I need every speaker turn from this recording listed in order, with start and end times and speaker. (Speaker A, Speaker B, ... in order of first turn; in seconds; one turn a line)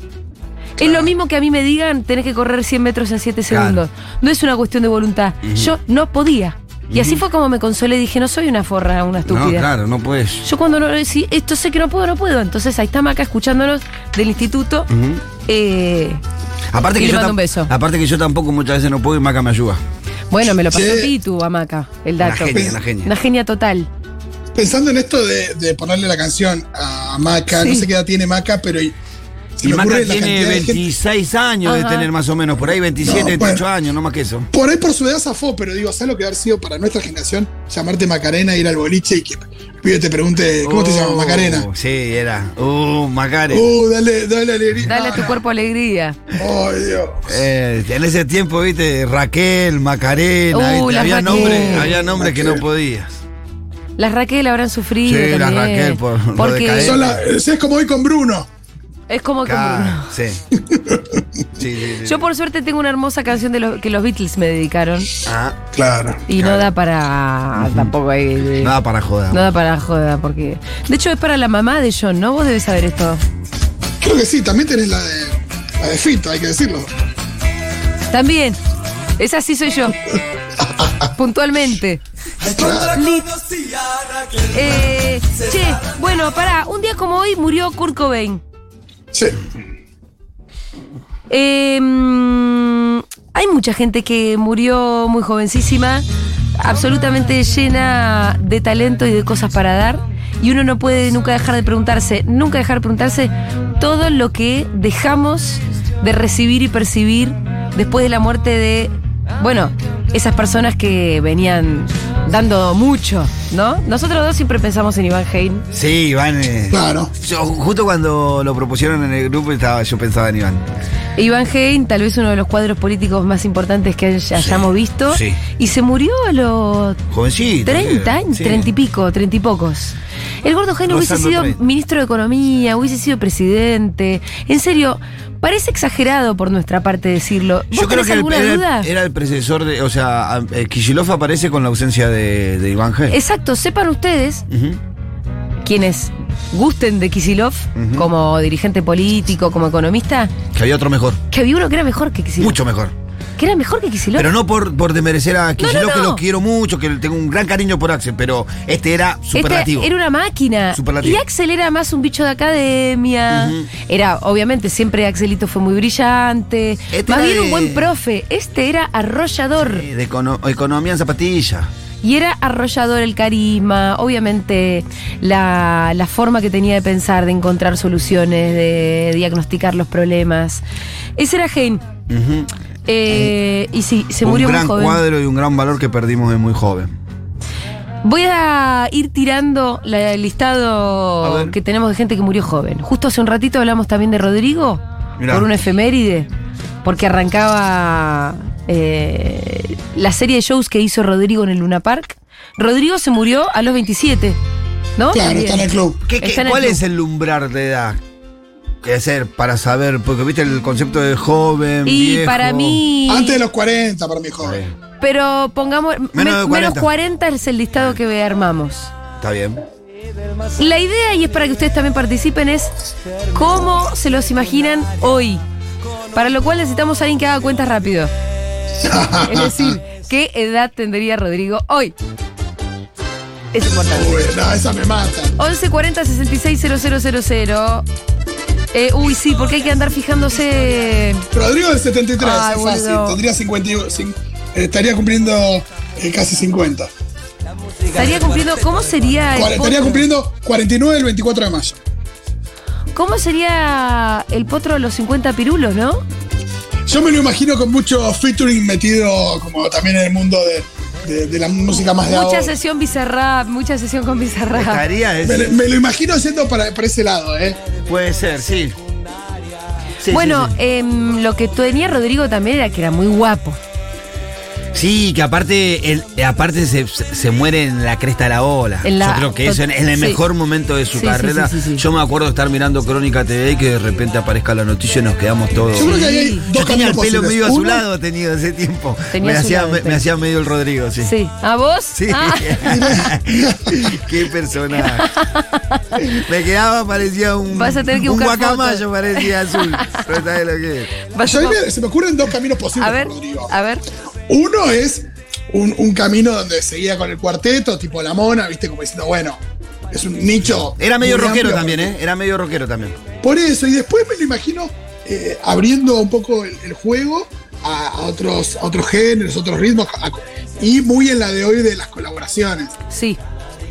Speaker A: 0.8-1.1
Speaker B: 0.8-9.7
Speaker C: 3.5-3.8
Speaker C: 5.4-5.7
Speaker C: 6.9-7.2
Speaker C: 9.3-10.4
Speaker B: 10.4-14.9
Speaker C: 14.9-15.2
Speaker B: 15.5-16.2
Speaker C: 16.7-19.8
Speaker B: 16.9-17.7
Speaker B: 20.3-23.9
Speaker A: 20.6-21.1
Speaker C: 22.2-23.1
Speaker A: 22.4-22.8
Speaker A: 24.5-28.9
Speaker B: 27.5-27.9
Speaker A: 29.6-30.8
Speaker C: 29.6-34.5
Speaker B: 31.6-32.1
Speaker A: 33.0-33.6
Speaker A: 34.5-41.7
Speaker C: 40.6-43.7
Speaker A: 43.5-45.4
Speaker B: 44.9-46.2
Speaker A: 46.4-47.4
Speaker C: 47.3-53.2
Speaker B: 50.5-51.9
Speaker A: 51.3-52.6
Speaker B: 54.0-57.0
Speaker C: 55.0-57.2
Speaker A: 56.8-58.5
Speaker B: 59.1-60.1
Speaker C: 59.4-60.4
Speaker A: 60.5-61.2
Speaker C: 61.6-62.2
Speaker B: 62.0-65.1
Speaker C: 65.2-65.6
Speaker A: 65.7-66.2
Speaker B: 66.3-68.7
Speaker C: 66.3-66.7
Speaker C: 67.6-67.9
Speaker C: 68.5-69.4
Speaker B: 69.3-73.2
Speaker A: 74.0-76.9
Speaker B: 78.1-78.6
Speaker B: 79.2-80.0
Speaker A: 80.6-81.1
Speaker B: 81.1-82.0
Speaker A: 82.4-83.0
Speaker B: 82.8-83.3
Speaker B: 84.5-88.4
Speaker A: 89.1-89.4
Speaker B: 91.3-96.0
Speaker B: 96.6-115.7
Speaker C: 115.7-120.6
Speaker A: 116.7-117.1
Speaker B: 121.2-127.0
Speaker C: 124.3-125.4
Speaker C: 127.1-128.7
Speaker B: 127.6-138.9
Speaker C: 130.9-131.6
Speaker C: 137.7-143.2
Speaker B: 143.1-144.4
Speaker C: 144.5-144.8
Speaker B: 145.6-150.3
Speaker C: 147.8-148.1
Speaker C: 150.5-151.2
Speaker B: 151.3-152.6
Speaker C: 152.4-152.9
Speaker B: 153.4-154.3
Speaker C: 154.1-159.9
Speaker B: 155.6-156.2
Speaker B: 159.3-169.8
Speaker C: 160.7-161.2
Speaker C: 163.3-163.7
Speaker C: 166.9-167.9
Speaker C: 169.6-171.7
Speaker B: 172.0-180.6
Speaker B: 181.2-181.8
Speaker C: 182.1-182.5
Speaker B: 182.9-185.0
Speaker C: 183.1-183.3
Speaker C: 184.2-186.9
Speaker B: 188.0-196.3
Speaker C: 191.2-191.5
Speaker C: 195.2-195.5
Speaker B: 196.8-204.4
Speaker B: 205.0-206.8
Speaker A: 205.1-206.0
Speaker C: 206.1-208.0
Speaker C: 208.8-212.8
Speaker B: 211.8-213.4
Speaker A: 213.1-214.6
Speaker C: 214.4-214.7
Speaker B: 215.0-218.9
Speaker C: 216.1-216.9
Speaker C: 219.2-219.6
Speaker B: 220.6-222.7
Speaker B: 223.3-225.4
Speaker B: 226.1-228.1
Speaker A: 228.8-229.8
Speaker B: 229.2-231.9
Speaker B: 233.5-234.3
Speaker A: 233.7-235.3
Speaker B: 235.4-237.8
Speaker B: 238.7-241.2
Speaker A: 241.3-246.9
Speaker B: 242.2-243.2
Speaker B: 247.9-250.1
Speaker A: 249.3-251.8
Speaker B: 252.9-256.0
Speaker A: 256.9-262.5
Speaker B: 261.9-264.8
Speaker C: 264.5-265.5
Speaker A: 265.2-267.6
Speaker C: 267.8-268.8
Speaker C: 270.0-270.5
Speaker B: 270.1-273.6
Speaker C: 274.7-285.9
Speaker B: 278.8-280.2
Speaker B: 280.9-281.8
Speaker A: 285.7-287.8
Speaker B: 285.8-286.4
Speaker C: 286.5-291.1
Speaker B: 289.1-290.0
Speaker B: 291.0-292.6
Speaker C: 291.9-295.1
Speaker A: 292.6-294.0
Speaker B: 294.8-296.0
Speaker C: 296.2-300.9
Speaker B: 297.5-300.0
Speaker B: 301.1-301.6
Speaker A: 301.2-303.5
Speaker B: 302.8-303.8
Speaker A: 304.3-311.9
Speaker C: 310.8-313.0
Speaker A: 313.2-322.8
Speaker B: 322.9-323.2